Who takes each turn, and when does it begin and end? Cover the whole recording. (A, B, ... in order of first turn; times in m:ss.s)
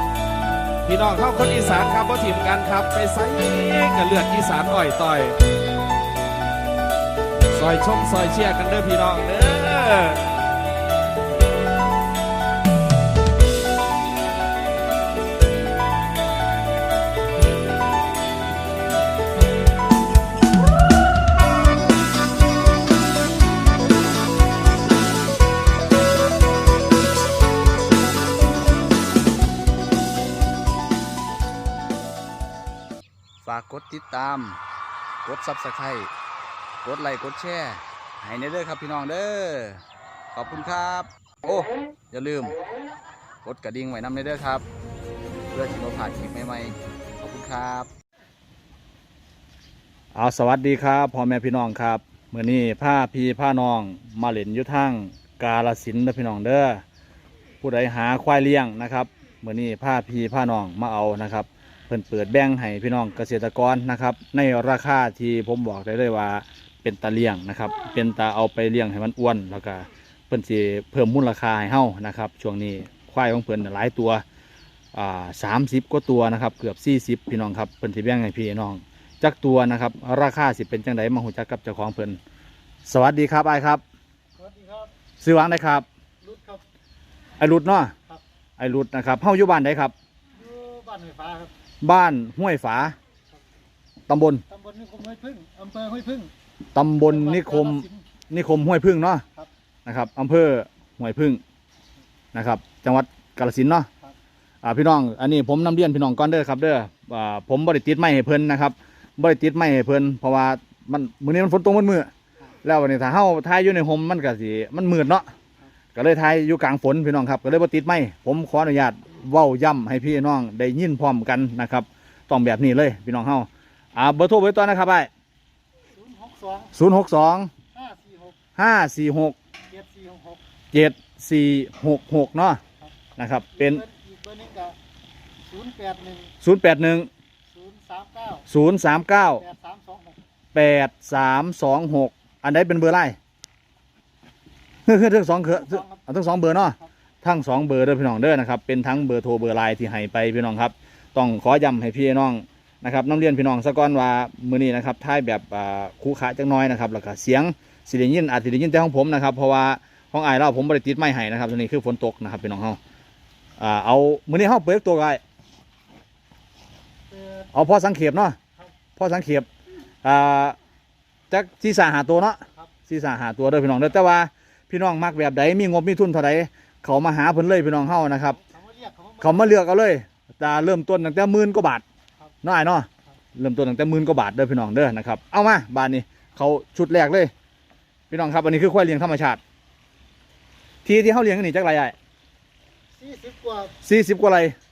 0:00.8-0:05.4 A
0:07.5-0:10.2 A
0:33.4-0:34.6 B
0:35.2-0:36.1 B
0:36.8-0:39.8 B
0:40.3-0:42.5 B
0:43.4-0:44.6 B
0:45.5-0:47.9 B
0:50.1-0:56.8 B
0:57.6-1:14.2 B
1:14.9-1:22.2 B
1:22.8-1:23.8 B
1:24.4-1:24.9 C
1:25.2-1:25.8 B
1:26.2-1:26.6 C
1:27.4-1:27.9 B
1:28.6-1:29.9 B
1:30.3-1:31.5 C
1:31.8-1:33.0 B
1:34.1-1:34.4 B
1:34.5-1:36.3 C
1:36.7-1:39.2 B
1:37.0-1:38.0 C
1:39.8-1:41.4 B
1:42.3-1:43.9 B
1:44.6-1:52.1 B
1:52.6-1:55.3 B
1:55.9-2:05.1 B
2:05.9-2:06.8 C
2:06.7-2:07.5 B
2:07.7-2:08.4 C
2:08.6-2:09.4 B
2:09.7-2:10.4 C
2:10.7-2:12.6 B
2:13.2-2:13.8 B
2:13.5-2:14.8 C
2:15.5-2:16.3 C
2:16.4-2:17.1 B
2:17.5-2:18.5 C
2:18.5-2:19.4 B
2:19.4-2:20.2 C
2:20.5-2:23.2 B
2:24.8-2:42.8 B
2:25.5-2:26.0 C
2:43.6-2:45.2 B
2:47.1-2:47.5 C
2:47.5-2:48.4 B
2:49.0-2:49.5 B
2:50.0-2:50.6 B
2:51.3-2:58.4 B
2:58.2-2:59.6 C
2:59.2-3:01.8 B
3:02.4-3:07.3 B
3:08.1-3:09.4 B
3:10.8-3:11.9 B
3:13.0-3:13.8 C
3:13.8-3:14.5 B